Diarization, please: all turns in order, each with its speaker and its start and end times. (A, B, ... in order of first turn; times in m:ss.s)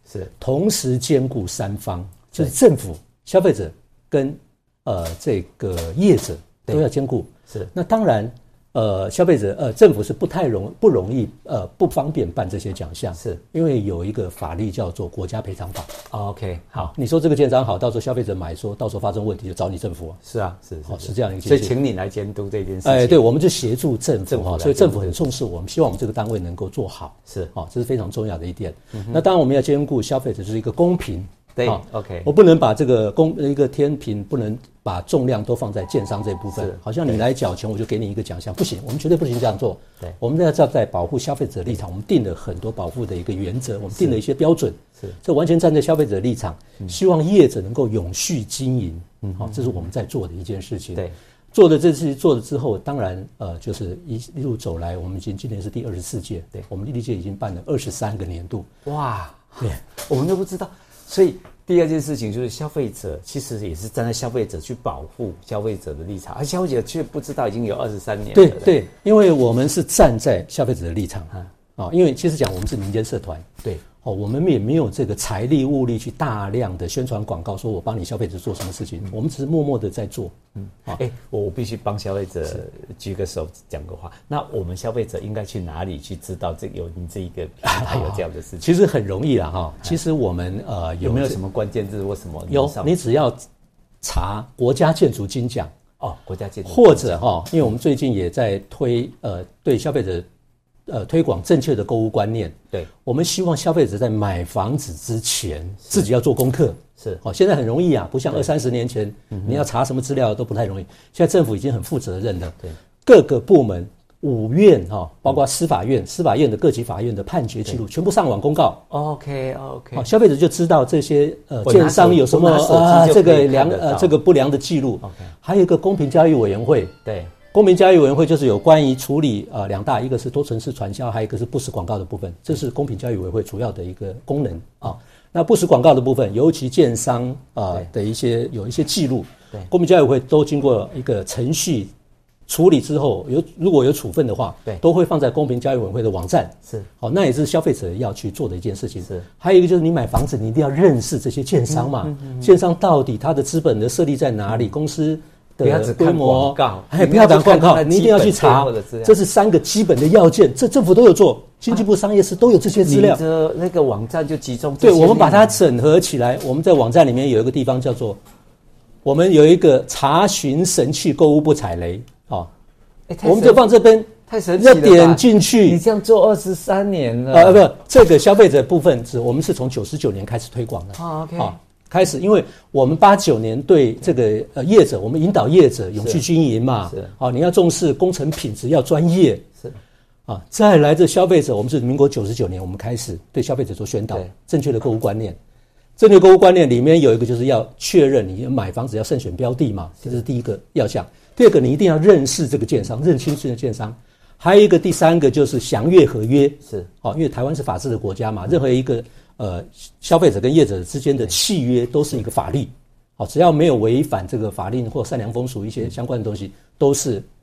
0:00.4-0:15.9 A
0:16.1-0:16.9 B
0:16.8-0:20.2 A
0:20.2-0:23.3 B
0:20.9-0:21.8 A
0:22.8-0:58.7 A
0:24.3-0:25.2 B
0:28.9-0:29.2 B
0:31.6-0:32.3 B
0:36.5-0:37.2 B
0:49.2-0:49.6 B
0:58.9-1:08.8 B
1:08.3-1:13.5 A
1:14.0-1:20.4 A
1:20.7-1:28.7 B
1:27.6-1:31.4 A
1:31.0-1:32.9 B
1:32.5-1:33.4 A
1:34.0-1:35.7 A
1:36.0-1:37.4 B
1:36.6-1:40.3 A
1:40.9-1:58.8 A
1:58.9-2:00.1 B
2:00.0-2:06.9 A
2:01.6-2:04.2 B
2:05.0-2:05.3 B
2:07.0-2:07.3 B
2:07.5-2:21.9 A
2:22.5-2:43.2 A
2:31.8-2:32.4 B
2:35.6-2:39.1 B
2:42.8-2:45.6 B
2:44.8-2:48.2 A
2:49.0-2:52.5 A
2:53.1-2:53.7 B
2:53.2-2:55.8 A
2:54.3-2:57.7 B
2:57.3-3:09.4 A
3:01.0-3:01.6 B
3:10.3-3:15.4 A
3:16.0-3:37.3 A